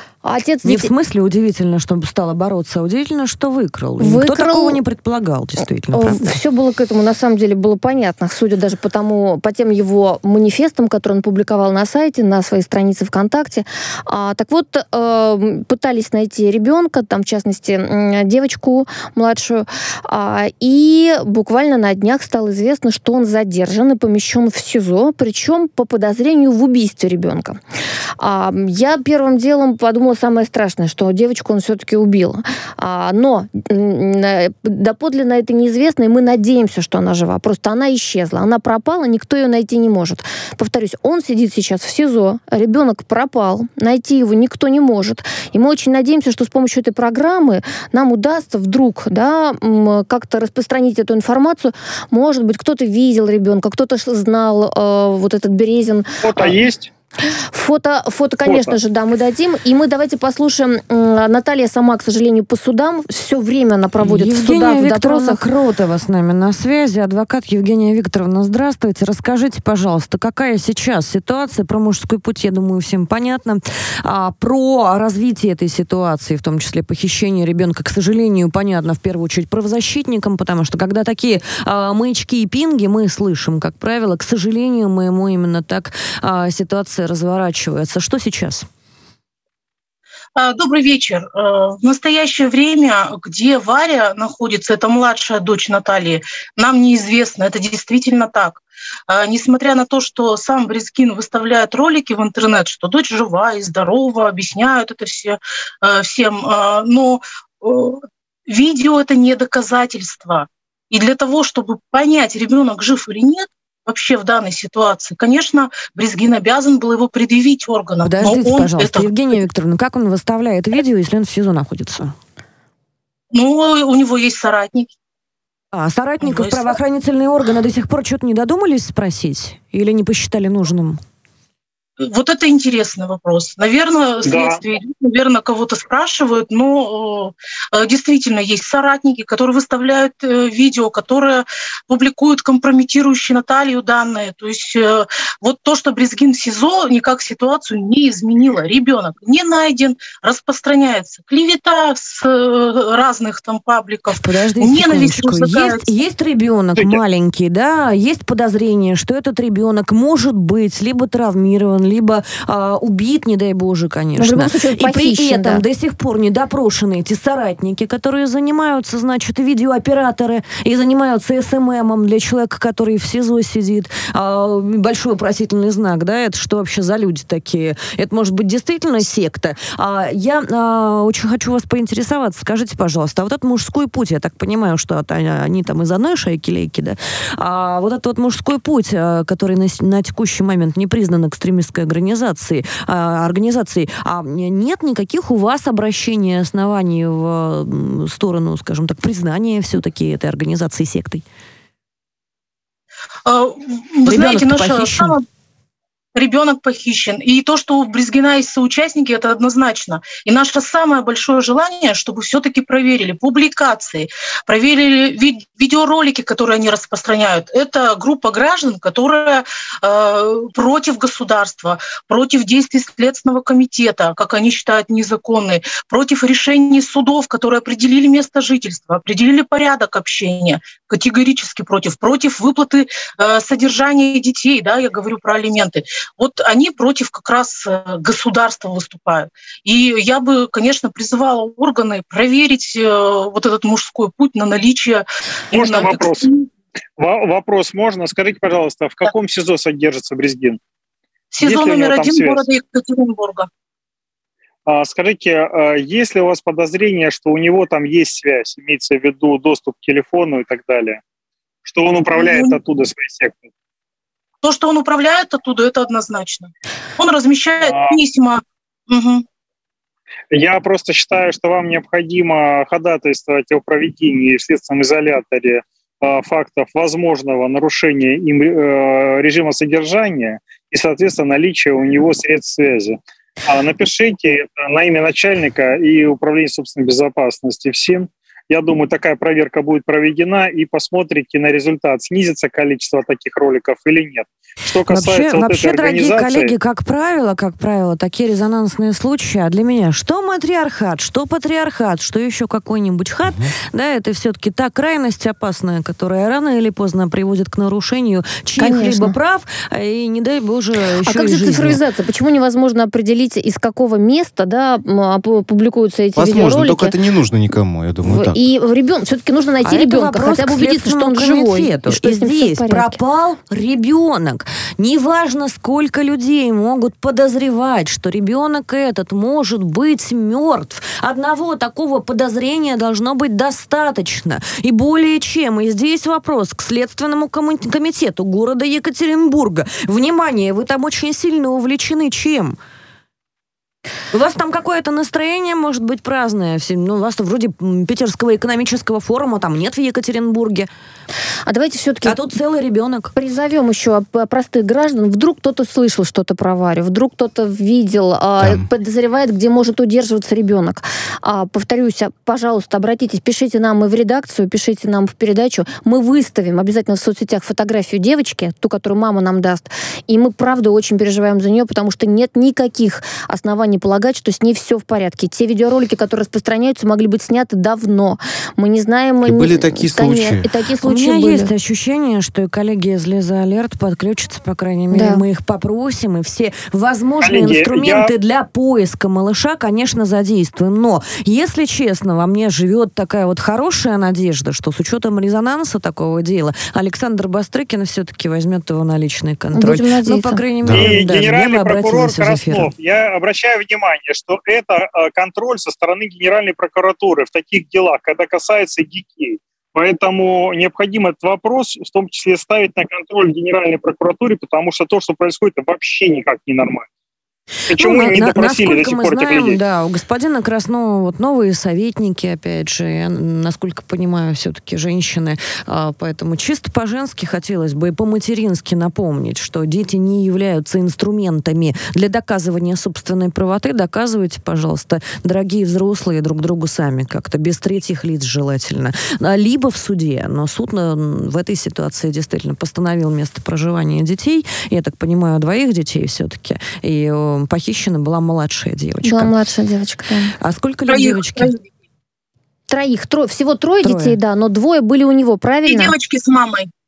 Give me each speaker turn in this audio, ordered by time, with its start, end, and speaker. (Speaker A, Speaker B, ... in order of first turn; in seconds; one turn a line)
Speaker A: 0.2-0.9
Speaker B: 0.6-6.3
Speaker A: 4.0-4.8
Speaker A: 5.9-27.6
Speaker A: 28.2-56.6
Speaker C: 56.2-56.9
Speaker A: 57.5-65.4
Speaker C: 58.4-58.8
Speaker B: 64.0-88.7
Speaker D: 90.3-119.1
Speaker B: 118.0-122.1
Speaker D: 123.3-124.9
Speaker B: 125.7-131.0
Speaker D: 126.2-126.8
Speaker D: 132.0-155.8
Speaker C: 134.2-134.6
Speaker B: 154.2-201.2
Speaker A: 164.2-165.6
Speaker D: 203.2-205.2
Speaker B: 204.1-205.2
Speaker D: 206.1-246.4
Speaker C: 245.5-246.3
Speaker C: 247.0-250.6
Speaker D: 251.3-253.5
Speaker C: 251.4-252.5
Speaker C: 254.7-261.0
Speaker C: 261.6-263.5
Speaker D: 262.1-262.6
Speaker D: 264.4-269.2
Speaker C: 267.6-267.9
Speaker C: 270.3-296.5
Speaker B: 294.9-311.8
Speaker E: 303.2-303.5
Speaker A: 308.6-309.1
Speaker A: 311.1-316.9
Speaker E: 316.1-318.4
Speaker A: 318.0-322.9
Speaker B: 319.6-342.6
Speaker B: 344.1-350.7
Speaker A: 351.4-352.2
Speaker B: 352.1-353.1
Speaker A: 353.1-381.5
Speaker E: 379.2-380.5
Speaker B: 380.8-402.7
Speaker A: 384.9-385.2
Speaker C: 387.2-388.1
Speaker A: 399.5-400.4
Speaker E: 400.6-401.0
Speaker C: 400.7-416.8
Speaker C: 417.7-419.6
Speaker B: 417.7-449.3
Speaker A: 449.0-450.3
Speaker B: 450.4-451.5
Speaker D: 450.9-451.6
Speaker A: 452.7-455.9
Speaker B: 453.8-454.2
Speaker D: 455.6-456.7